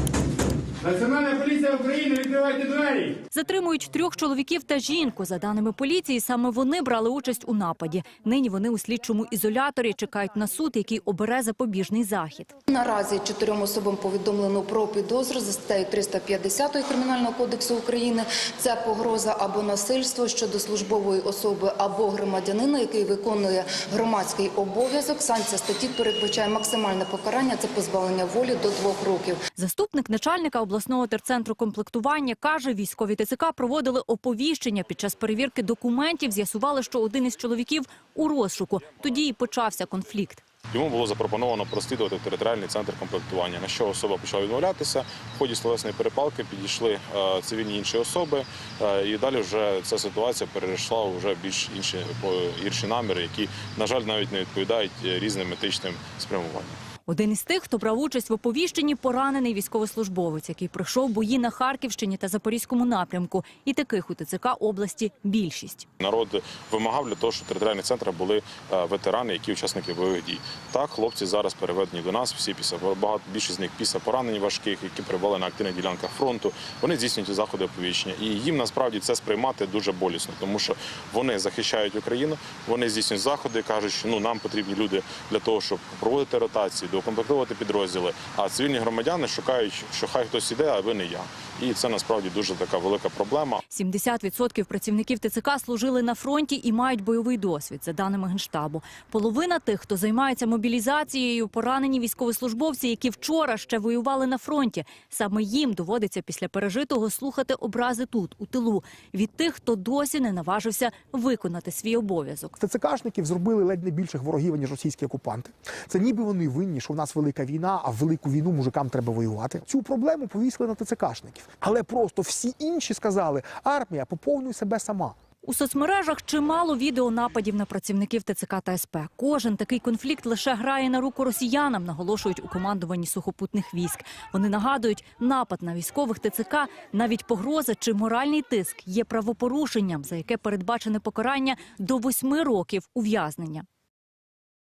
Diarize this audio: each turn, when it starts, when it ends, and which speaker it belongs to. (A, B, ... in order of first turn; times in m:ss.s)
0:00.8-0:03.1 A
0:03.3-0:12.5 B
0:12.7-0:29.4 C
0:29.6-0:40.4 B
0:40.7-0:56.8 D
0:57.1-1:05.9 B
1:06.0-1:33.6 D
1:33.7-1:52.6 B
1:52.6-2:05.1 E
2:05.4-2:23.7 B